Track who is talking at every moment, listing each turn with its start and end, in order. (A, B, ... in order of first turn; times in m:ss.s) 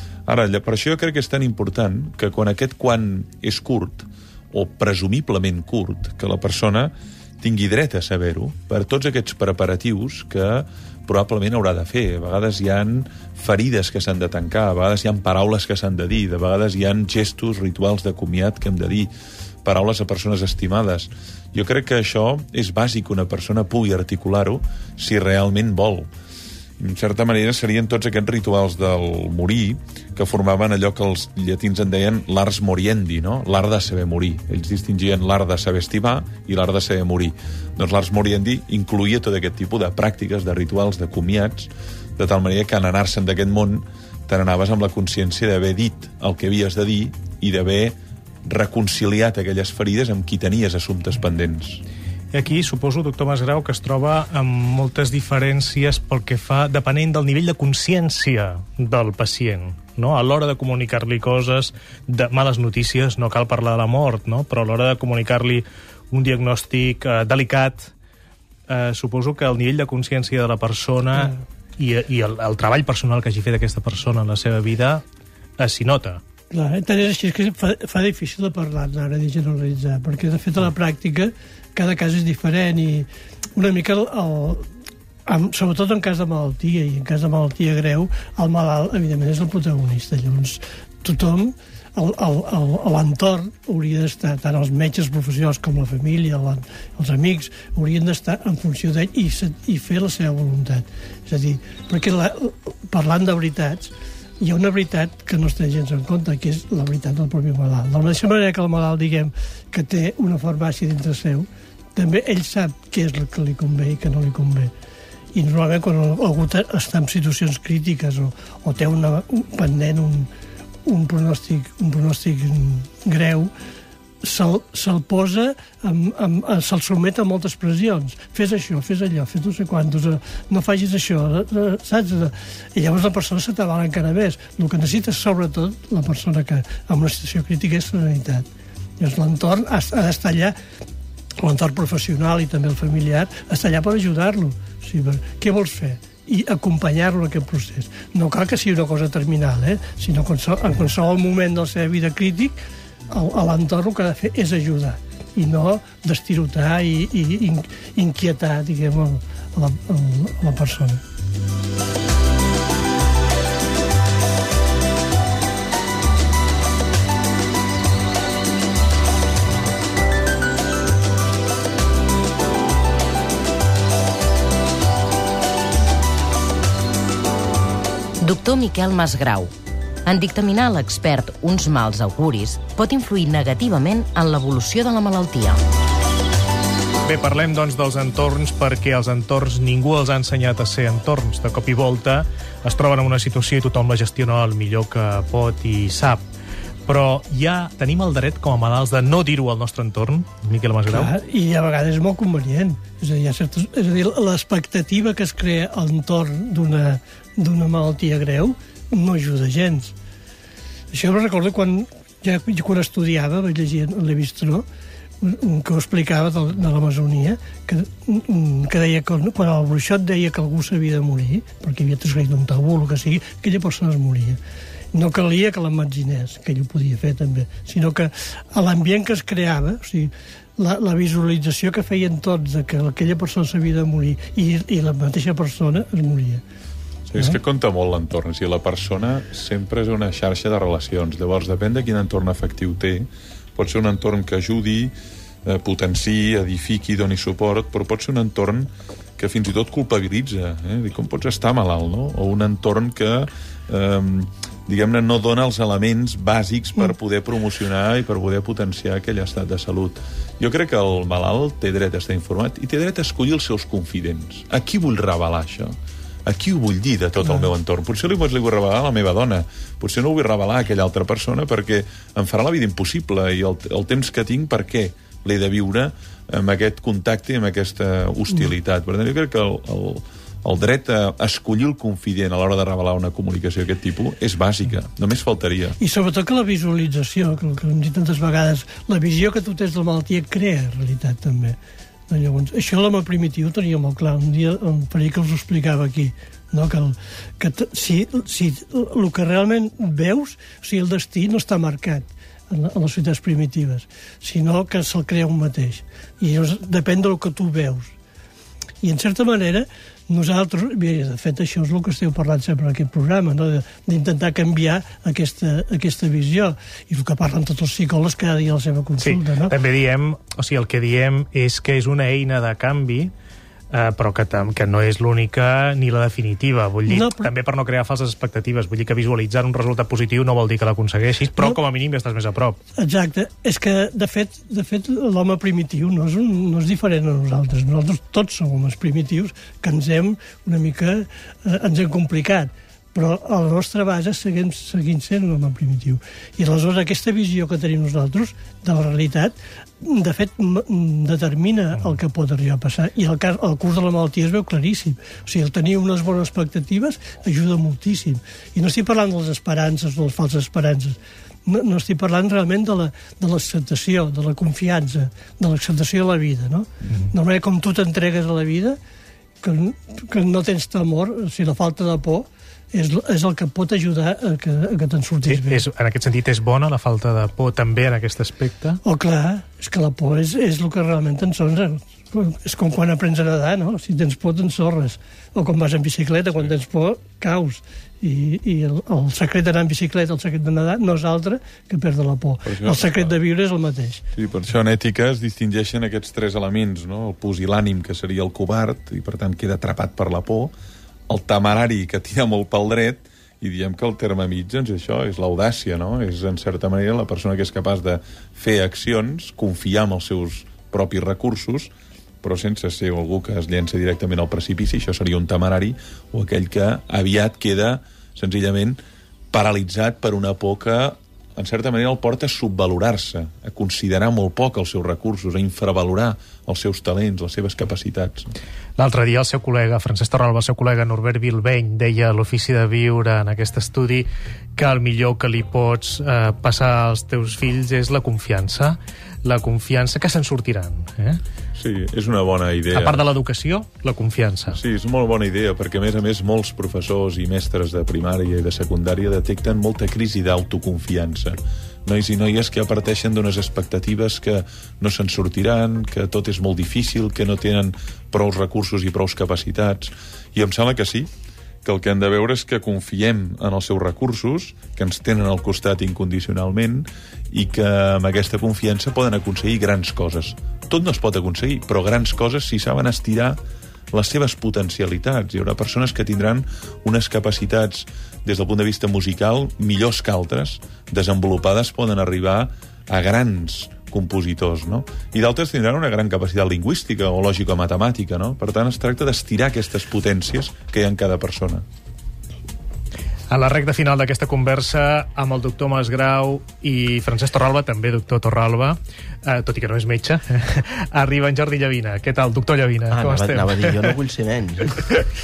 0:00.3-0:19.1 A
0:19.6-0:26.1 A
0:26.8-0:51.8 A
0:52.3-1:07.9 B
1:08.7-1:15.0 B
1:15.6-1:16.2 B
1:16.5-1:24.6 C
1:25.3-1:54.7 C
1:55.3-2:00.3 C
2:00.9-2:03.5 C
2:04.2-2:18.5 C
2:19.0-2:20.6 C
2:21.4-2:32.6 C
2:33.1-2:41.0 C
2:58.2-2:59.5 D
3:00.0-3:05.6 D
3:07.1-3:16.2 B
3:16.9-3:21.1 B
3:20.9-3:29.9 C
3:30.9-3:34.6 C
3:35.2-3:44.4 C
3:44.9-3:56.4 C
3:57.1-4:04.9 A
4:05.4-4:45.8 A
4:45.8-4:51.6 C
4:52.1-5:07.9 C
5:08.8-5:19.5 C
5:19.0-5:23.1 B
5:23.7-5:32.6 B
5:26.9-5:27.3 C
5:32.8-6:08.8 C
6:09.4-6:15.6 C
6:15.3-6:18.8 B
6:18.8-6:34.0 C
6:32.5-6:33.2 A
6:34.2-6:40.5 A
6:41.1-6:58.8 A
6:59.3-7:08.3 A
7:08.8-7:21.2 B
7:21.6-7:23.1 A
7:22.8-7:24.6 B
7:24.5-7:41.1 A
7:41.6-7:53.4 A
7:53.9-8:11.6 A
8:13.3-8:23.9 B
8:22.9-8:25.0 E